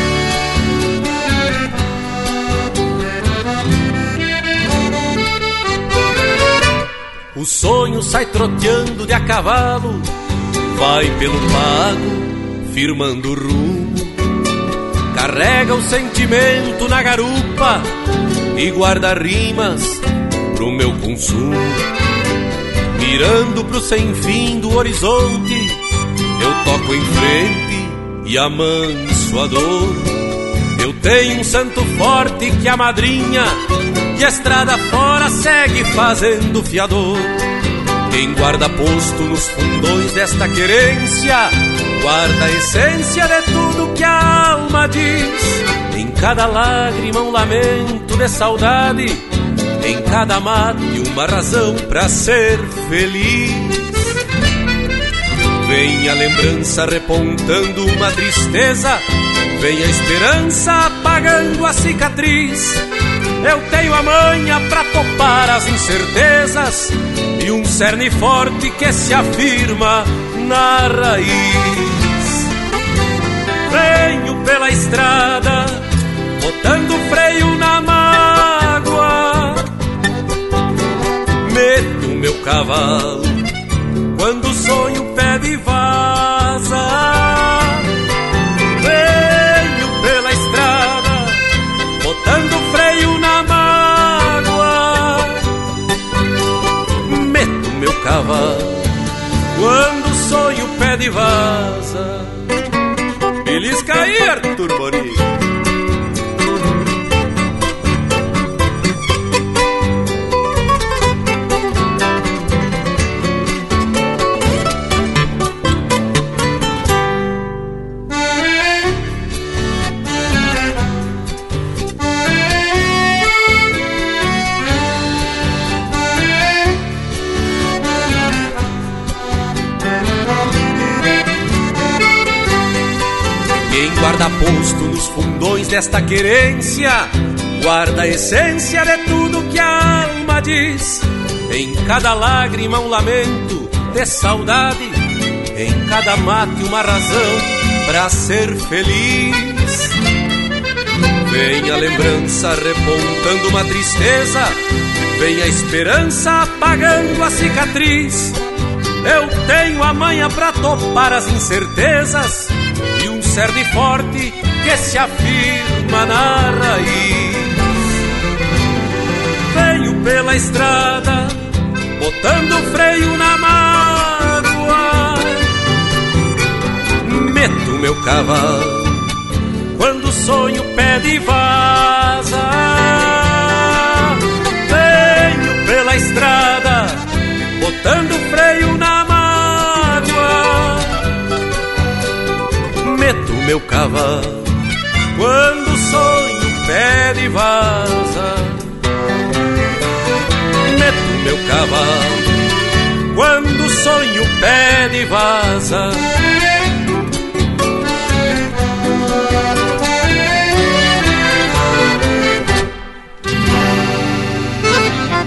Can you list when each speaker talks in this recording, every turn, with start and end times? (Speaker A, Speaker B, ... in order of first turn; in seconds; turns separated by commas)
Speaker A: 7.3-10.1, Speaker A: 10.7-14.1, Speaker A: 15.1-17.9, Speaker A: 18.5-21.8, Speaker A: 23.0-25.8, Speaker A: 26.4-30.1, Speaker A: 30.8-33.6, Speaker A: 34.1-37.4, Speaker A: 38.1-49.2, Speaker A: 49.8-54.0, Speaker A: 55.6-59.0, Speaker A: 59.6-62.8, Speaker A: 63.4-72.4, Speaker A: 73.7-75.8, Speaker A: 76.4-79.7, Speaker A: 81.4-83.4, Speaker A: 84.1-87.8, Speaker A: 88.8-91.4, Speaker A: 92.0-95.4, Speaker A: 97.1-98.8, Speaker A: 99.5-102.4, Speaker A: 103.4-105.2, Speaker A: 133.7-149.9, Speaker A: 151.2-154.6, Speaker A: 155.1-158.4, Speaker A: 159.0-167.6, Speaker A: 169.5-171.4, Speaker A: 172.0-175.4, Speaker A: 177.0-179.0, Speaker A: 179.8-187.0, Speaker A: 187.6-191.0, Speaker A: 192.8-194.5, Speaker A: 195.2-198.6, Speaker A: 200.7-202.3, Speaker A: 203.1-206.1